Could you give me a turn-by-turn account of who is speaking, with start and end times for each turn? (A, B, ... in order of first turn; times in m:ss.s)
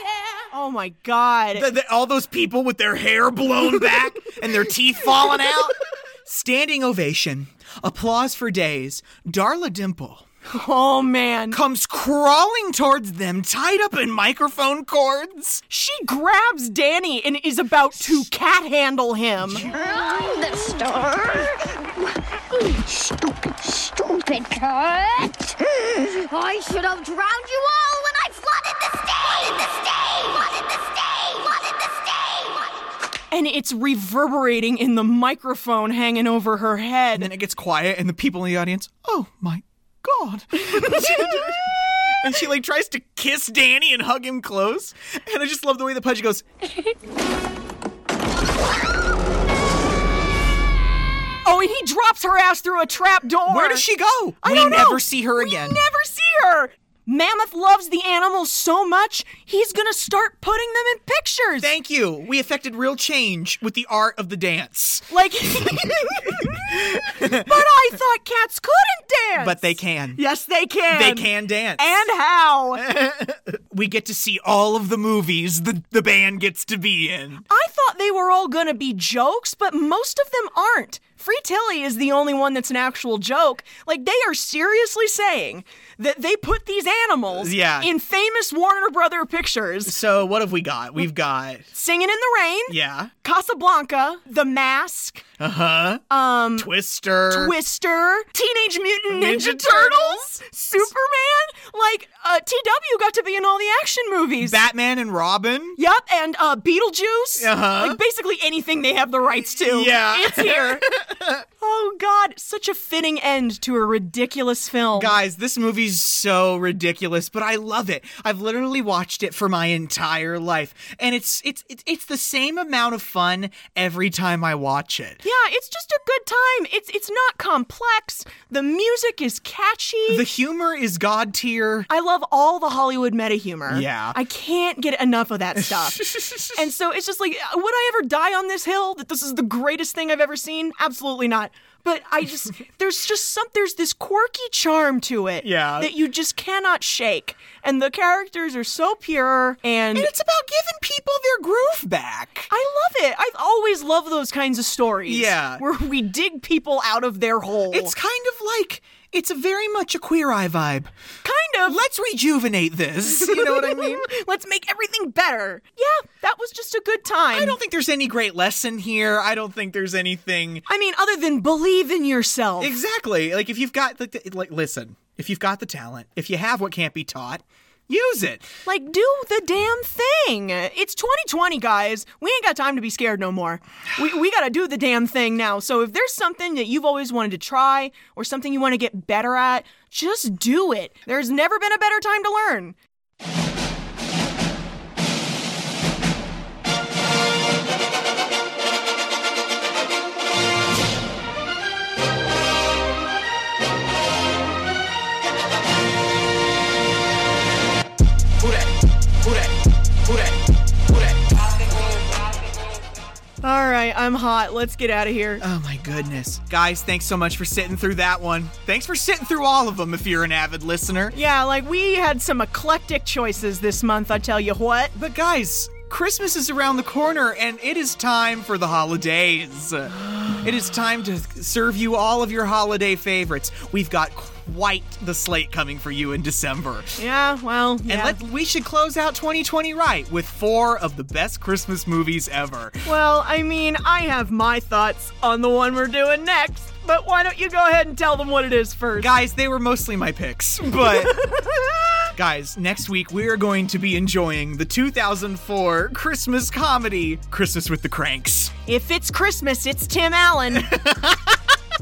0:00.5-0:01.7 A
0:01.5-0:10.2 B
0:10.5-0:11.6 A
0:11.5-0:15.6 B
0:15.7-0:19.6 A
0:19.4-0:19.8 B
0:19.7-0:32.8 C
0:33.3-0:37.3 A
0:37.1-0:46.5 B
0:40.8-0:41.6 A
0:51.4-0:53.9 A
0:53.5-0:55.8 B
0:54.4-1:01.7 A
1:01.6-1:05.7 B
1:05.1-1:12.8 A
1:06.3-1:07.6 B
1:09.4-1:10.2 B
1:10.9-1:12.0 B
1:12.8-1:17.5 B
1:17.5-1:30.0 A
1:27.4-1:27.9 B
1:29.8-1:31.7 B
1:31.7-1:35.2 A
1:32.7-1:33.1 B
1:35.4-1:36.0 B
1:36.1-1:36.7 A
1:36.6-1:37.6 B
1:37.3-1:44.6 A
1:39.1-1:40.3 B
1:44.4-1:45.8 B
1:45.8-1:50.9 A
1:47.4-1:48.0 B
1:49.5-1:51.4 B
1:51.6-1:55.2 A
1:55.0-2:05.2 B
2:05.2-2:10.3 A
2:10.1-2:11.9 B
2:11.9-2:30.1 A
2:13.7-2:14.2 B
2:15.7-2:16.5 B
2:25.4-2:25.9 B
2:29.9-2:32.5 B
2:32.5-2:37.9 A
2:35.1-2:35.6 B
2:37.7-2:40.9 B
2:41.2-2:41.8 A
2:41.7-2:44.1 B
2:43.1-2:47.6 A
2:47.3-2:50.6 B
2:50.7-2:52.8 A
2:52.6-2:58.5 B
2:58.6-3:12.8 A
3:33.4-3:35.4 A
3:35.4-3:41.2 B
3:41.1-3:44.9 A
3:45.0-3:57.0 B
3:57.0-3:58.2 A
3:57.9-4:02.9 B
4:02.8-4:09.1 A
4:09.0-4:11.2 B
4:10.8-4:11.6 A
4:12.2-4:18.6 B
4:18.7-4:20.8 A
4:20.5-4:21.4 B